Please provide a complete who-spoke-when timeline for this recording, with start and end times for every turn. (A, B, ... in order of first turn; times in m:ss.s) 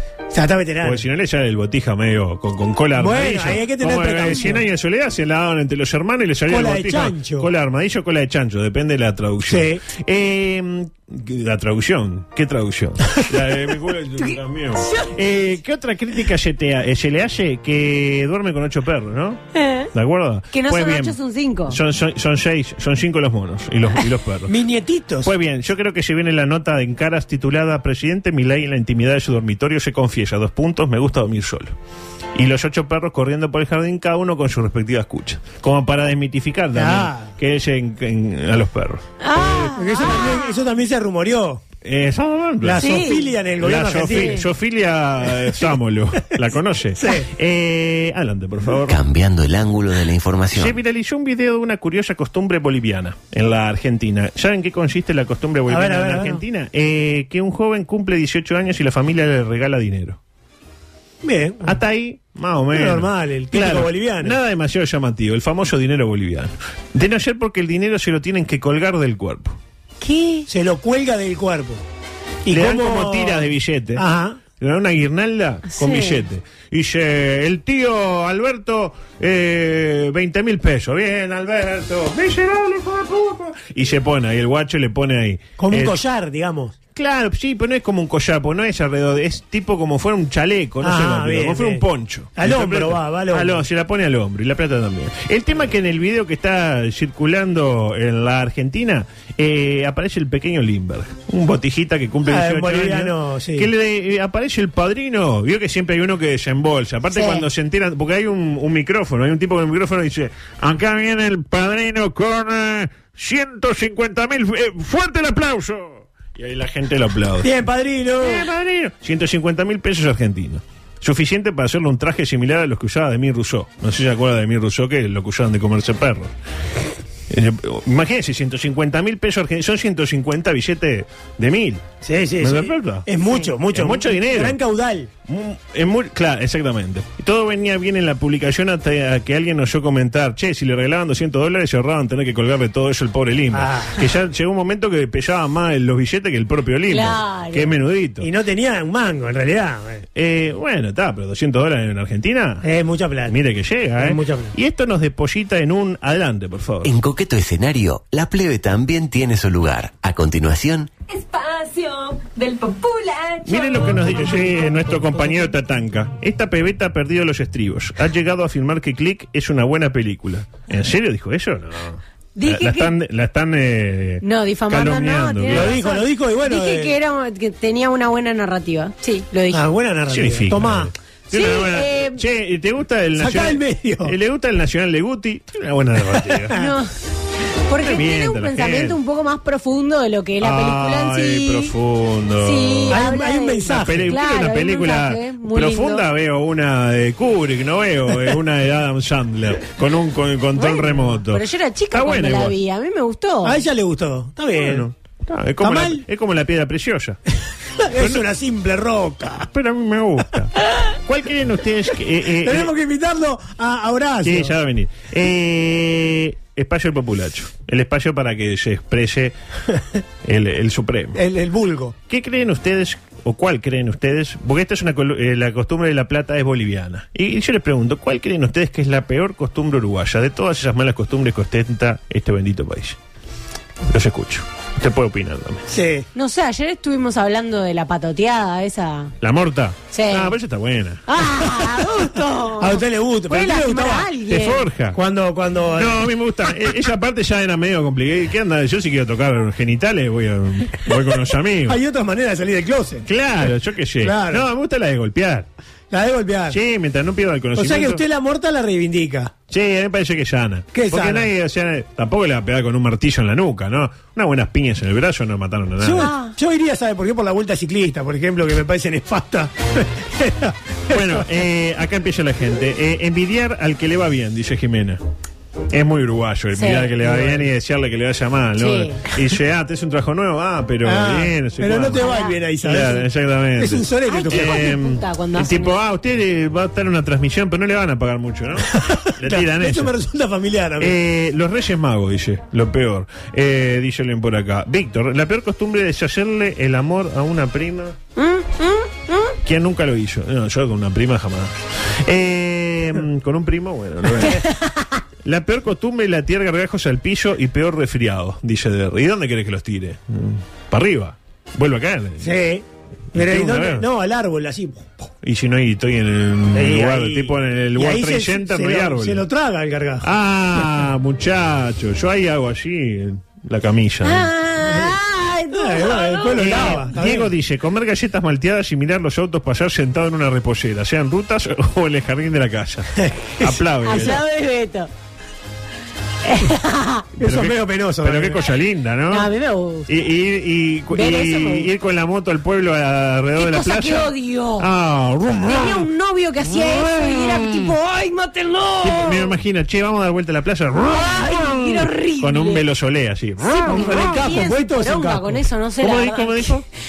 0:00.3-0:01.0 A
0:00.8-0:19.4 B
0:03.0-0:04.6 A
0:06.5-0:07.5 A
0:09.5-0:09.8 A
0:14.8-0:15.1 C
0:19.6-0:19.9 C
0:19.9-0:21.2 B
0:20.5-0:21.8 C
0:21.7-0:24.5 B
0:24.5-0:25.3 A
0:25.2-0:31.7 B
0:32.4-0:39.7 B
0:36.7-0:37.3 A
0:39.2-0:40.6 C
0:39.4-0:41.6 A
0:41.8-0:49.0 B
0:42.6-0:44.4 A
0:42.8-0:43.3 C
0:44.1-0:44.4 C
0:47.0-0:47.3 A
0:48.9-0:50.8 D
0:50.6-1:00.2 B
0:55.7-0:56.4 A
1:01.2-1:01.8 A
1:01.6-1:09.6 B
1:02.7-1:04.4 A
1:10.0-1:10.5 C
1:10.5-1:11.8 A
1:12.4-1:14.4 A
1:12.5-1:14.0 B
1:14.6-1:26.0 B
1:15.7-1:16.2 C
1:25.6-1:26.8 A
1:27.0-1:57.5 B
1:30.8-1:31.8 A
1:32.4-1:33.6 A
1:42.2-1:43.7 A
1:47.1-1:47.4 C
1:57.4-1:58.5 A
1:58.2-2:06.3 B
2:07.3-2:11.8 B
2:12.0-2:15.1 A
2:12.4-2:13.1 B
2:13.7-2:14.6 B
2:15.3-2:28.3 B
2:23.5-2:24.0 A
2:26.9-2:27.7 C
2:28.2-2:30.0 A
2:30.2-2:32.6 B
2:32.6-2:33.4 A
2:33.3-2:36.9 B
2:34.0-2:34.5 A
2:36.8-2:40.9 D
2:41.1-2:44.0 C
2:43.4-2:55.8 B
2:52.4-2:52.9 C
2:54.2-2:59.6 C
2:55.5-2:57.0 A
2:59.5-3:00.9 A
3:00.1-3:06.6 B
3:01.3-3:02.2 C
3:03.2-3:04.1 A
3:06.3-3:06.7 A
3:06.5-3:06.9 C
3:07.7-3:11.7 C
3:07.8-3:09.0 B
3:10.4-3:13.0 B
3:12.4-3:16.0 C
3:12.9-3:14.2 A
3:13.7-3:22.6 B
3:20.6-3:23.6 C
3:23.4-3:24.9 A
3:24.5-3:27.2 B
3:25.6-3:26.0 A
3:27.8-3:29.5 A
3:27.9-3:28.2 B
3:29.5-3:32.7 B
3:32.4-3:34.5 A
3:34.2-3:39.3 B
3:40.2-3:41.2 B
3:41.2-3:41.9 A
3:42.1-3:53.0 B
3:53.9-3:55.6 B
3:55.7-3:56.1 A
3:56.2-3:59.1 C
3:59.2-4:01.0 B
3:59.9-4:00.3 C
4:01.1-4:04.7 C
4:01.6-4:01.8 A
4:02.6-4:04.1 A
4:04.3-4:05.0 B
4:04.9-4:06.1 A
4:05.8-4:11.8 B
4:11.7-4:13.1 A
4:13.1-4:15.5 B
4:14.0-4:14.4 A
4:15.9-4:16.6 A
4:16.5-4:18.0 B
4:17.6-4:19.3 A
4:19.5-4:26.1 B
4:20.7-4:21.3 A
4:25.8-4:31.2 A
4:26.0-4:26.4 C
4:30.9-4:35.0 B
4:35.7-4:49.9 B
4:36.6-4:36.9 C
4:37.0-4:37.5 A
4:38.6-4:39.0 C
4:40.8-4:43.1 A
4:42.0-4:42.4 C
4:43.6-4:44.7 A
4:44.1-4:45.8 C
4:48.7-4:51.0 A
4:50.8-4:58.0 B
4:58.2-4:59.4 C
4:59.4-5:01.5 B
5:02.0-5:04.4 B
5:04.3-5:04.6 C
5:05.2-5:12.3 B
5:12.2-5:15.1 A
5:13.1-5:13.9 B
5:15.2-5:19.2 B
5:16.5-5:20.1 A
5:20.0-5:24.3 B
5:24.0-5:26.8 C
5:24.6-5:25.0 A
5:25.5-5:27.3 A
5:26.4-5:34.2 B
5:33.0-5:33.5 A
5:33.8-5:34.9 C
5:36.2-5:37.1 C
5:37.2-5:39.3 B
5:37.2-5:38.4 A
5:39.1-5:39.9 C
5:39.9-5:45.9 B
5:40.9-5:41.7 C
5:43.4-5:44.7 C
5:45.4-5:49.3 C
5:48.8-5:54.2 B
5:50.9-5:52.6 C
5:53.5-5:56.5 C
5:53.6-5:55.4 A
5:55.8-5:56.6 B